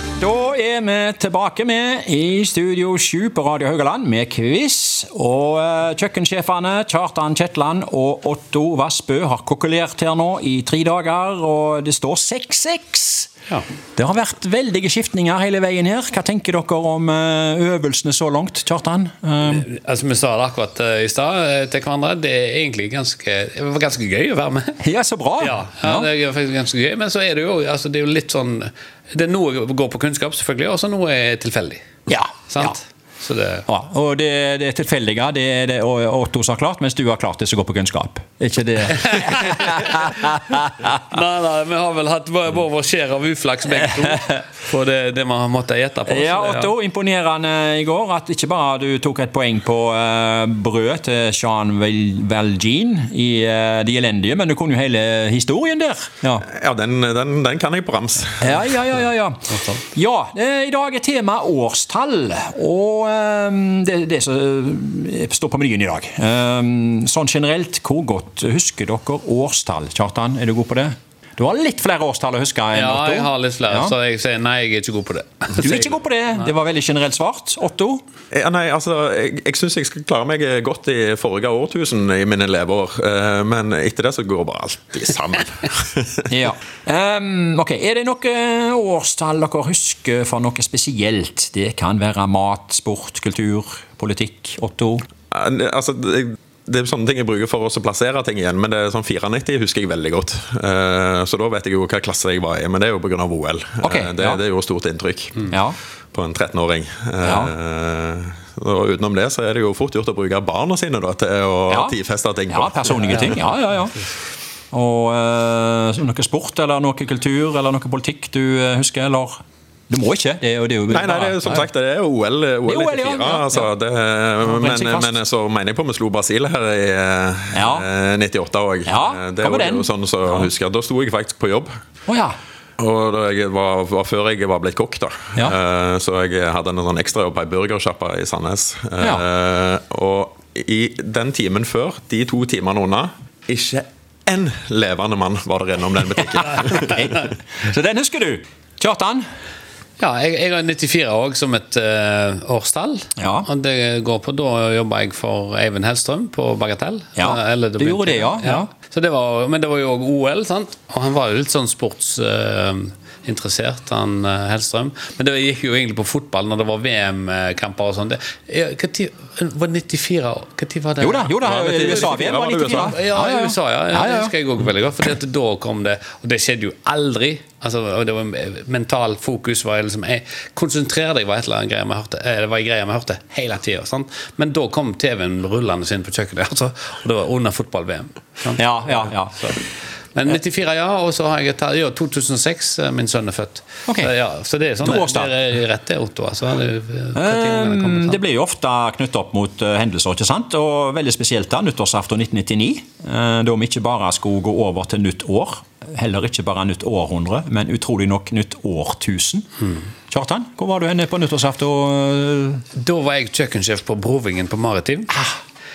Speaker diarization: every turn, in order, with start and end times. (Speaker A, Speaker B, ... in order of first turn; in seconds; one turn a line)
Speaker A: 0.2-13.3
Speaker A: 13.9-19.7
Speaker B: 19.4-24.8
Speaker A: 24.8-26.1
Speaker B: 25.4-31.8
Speaker A: 32.1-32.8
Speaker B: 32.5-33.6
Speaker A: 33.7-41.0
Speaker B: 39.0-40.1
Speaker B: 40.9-46.7
Speaker A: 43.8-44.3
Speaker A: 46.0-56.5
Speaker C: 56.4-58.6
Speaker A: 58.4-73.9
Speaker B: 59.5-59.8
Speaker B: 72.7-76.0
Speaker A: 75.5-78.0
Speaker C: 78.3-86.1
Speaker A: 86.3-95.0
Speaker C: 95.3-105.5
Speaker A: 103.8-104.4
Speaker A: 105.5-105.8
Speaker C: 106.1-113.3
Speaker A: 107.2-107.5
Speaker A: 111.7-112.0
Speaker A: 112.5-114.0
Speaker B: 113.1-113.3
Speaker A: 114.7-119.4
Speaker A: 119.9-121.7
Speaker C: 120.9-131.7
Speaker A: 122.7-123.7
Speaker A: 124.4-125.2
Speaker A: 127.5-127.9
Speaker A: 128.8-130.5
Speaker A: 132.1-132.3
Speaker C: 132.8-147.1
Speaker A: 146.2-149.2
Speaker B: 150.0-189.6
Speaker A: 153.2-153.5
Speaker A: 157.2-158.7
Speaker A: 171.0-174.3
Speaker C: 171.4-172.9
Speaker A: 188.6-189.5
Speaker B: 190.1-198.2
Speaker A: 194.8-195.3
Speaker A: 197.1-212.6
Speaker B: 212.7-215.1
Speaker A: 215.1-215.4